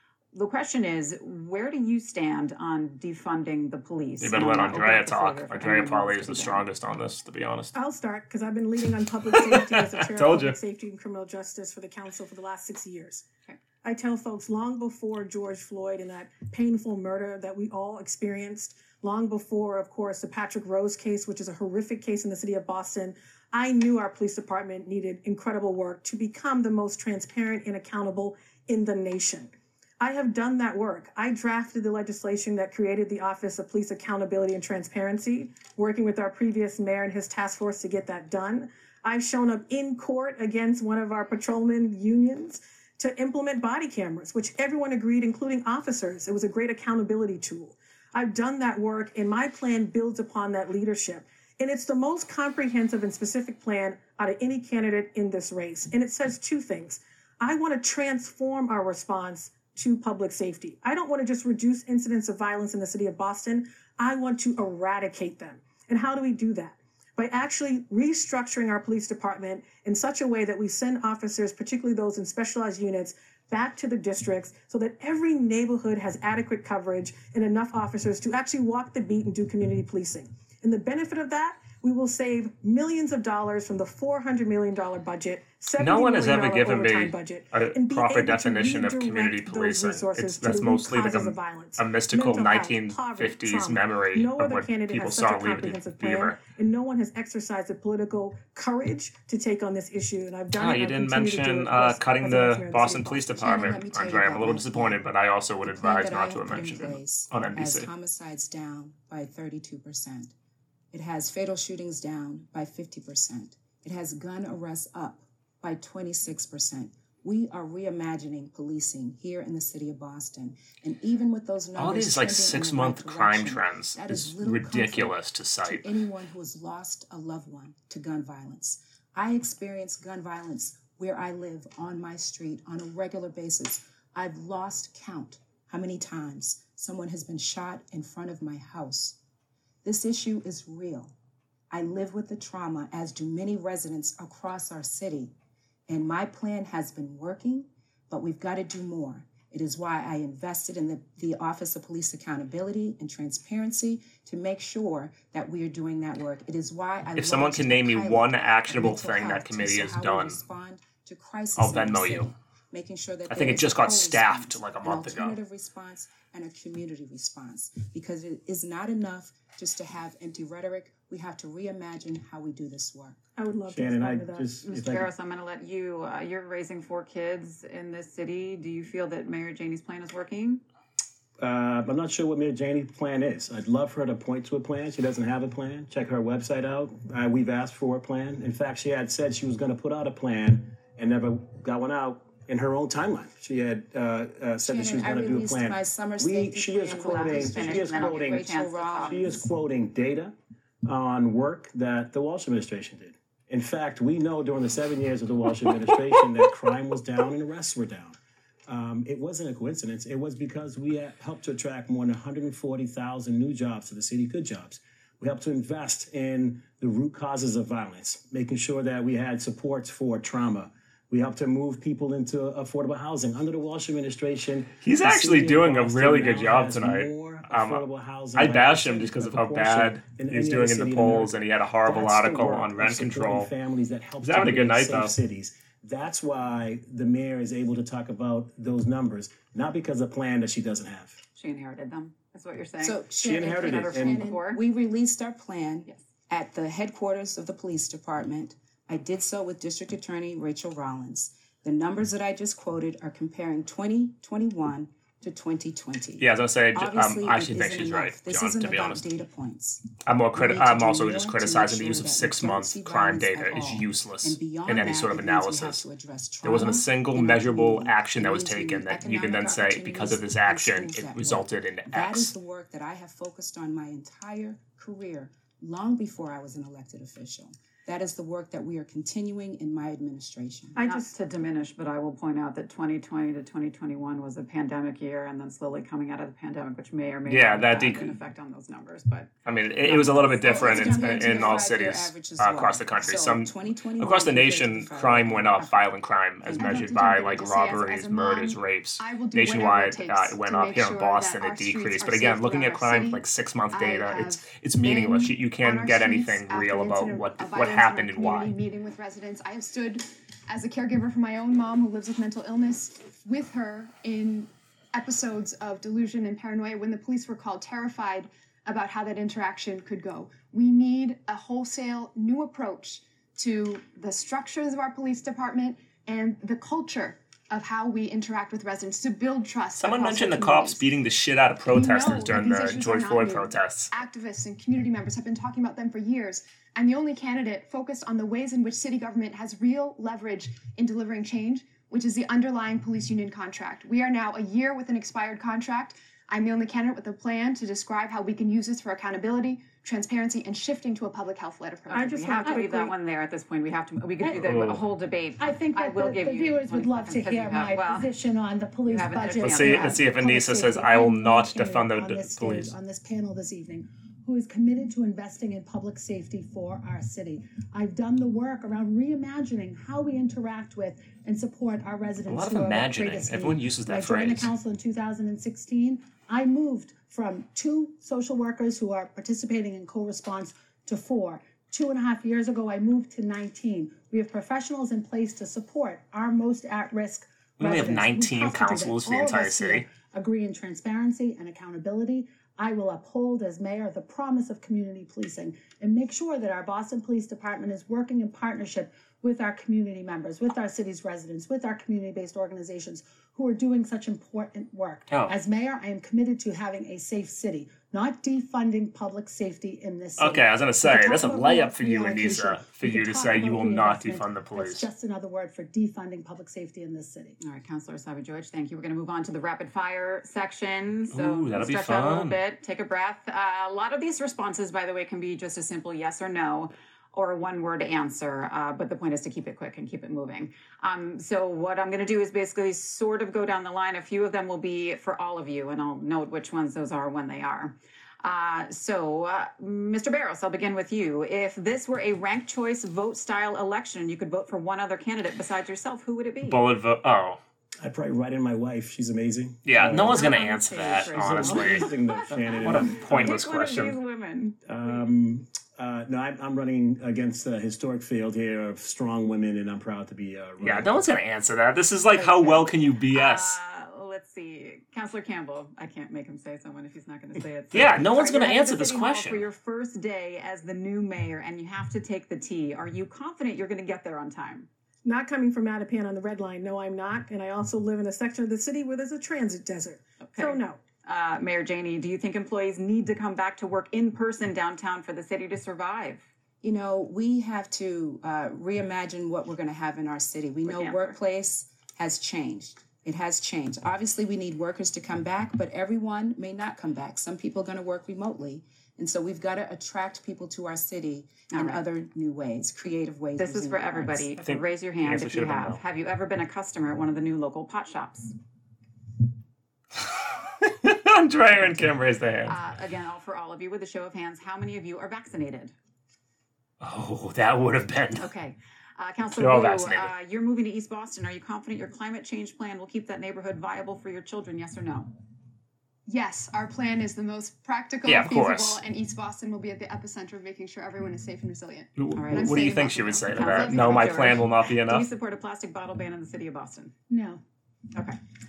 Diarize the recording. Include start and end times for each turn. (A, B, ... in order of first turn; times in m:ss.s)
0:00.3-0:06.6 A
0:04.2-0:07.7 B
0:07.7-0:13.2 C
0:09.3-0:10.6 B
0:13.8-1:43.8 C
1:25.8-1:36.4 B
1:40.5-1:47.9 B
1:43.4-1:45.0 D
1:45.6-1:50.3 D
1:50.9-2:19.2 D
2:01.8-2:05.9 B
2:19.8-2:21.1 D
2:21.7-2:25.3 D
2:25.9-2:53.2 D
2:37.2-2:40.4 B
2:41.6-2:42.3 B
2:43.3-2:45.4 B
2:53.4-2:54.5 C
2:53.7-2:55.1 E
2:54.6-3:00.6 A
3:01.4-3:18.5 E
3:14.6-3:19.4 D
3:16.8-3:19.5 A
3:19.0-4:01.2 E
3:44.8-3:47.8 B
3:48.3-3:53.5 B
3:54.2-3:55.1 B
4:01.4-4:04.6 A
4:02.8-4:40.8 D
4:03.2-4:04.3 E
4:16.2-4:19.1 B
4:20.0-4:25.8 B
4:26.4-4:32.3 B
4:40.7-4:41.1 C
4:40.8-4:51.6 A
4:47.3-4:48.2 B
4:49.4-5:08.5 B
4:50.0-4:55.9 D
4:56.4-4:56.8 D
4:56.5-5:30.9 F
5:29.8-5:33.9 B
5:31.7-5:52.5 F
5:51.9-5:52.9 C
5:52.0-5:58.1 A
5:54.2-5:54.7 G
5:54.4-5:54.8 B
5:55.4-6:57.4 G
5:58.8-6:00.0 A
5:59.4-6:02.7 B
6:12.3-6:14.5 B
6:27.6-6:29.8 B
6:45.1-6:45.3 B
6:50.2-6:54.9 B
6:57.4-7:26.6 A
7:01.1-7:02.4 B
7:26.4-7:27.4 B
7:27.8-7:30.4 E
7:29.6-7:31.9 B
7:29.9-7:35.0 A
7:31.0-7:33.4 E
7:32.6-7:34.0 B
7:34.6-7:41.0 E
7:40.6-7:43.6 B
7:42.1-7:54.7 A
7:47.7-7:49.4 B
7:55.0-8:00.8 C
8:00.2-8:06.2 A
8:06.6-8:24.3 D
8:10.6-8:11.2 A
8:21.5-8:21.8 A
8:23.4-8:28.3 A
8:24.4-8:25.8 B
8:30.0-8:32.6 B
8:32.5-8:35.7 A
8:36.8-8:38.3 B
8:38.2-8:45.1 A
8:39.3-8:40.1 B
8:46.0-8:54.4 F
8:48.0-8:48.8 B
8:52.0-8:55.0 B
8:52.2-8:56.9 A
8:57.1-8:57.4 G
8:57.9-8:58.2 A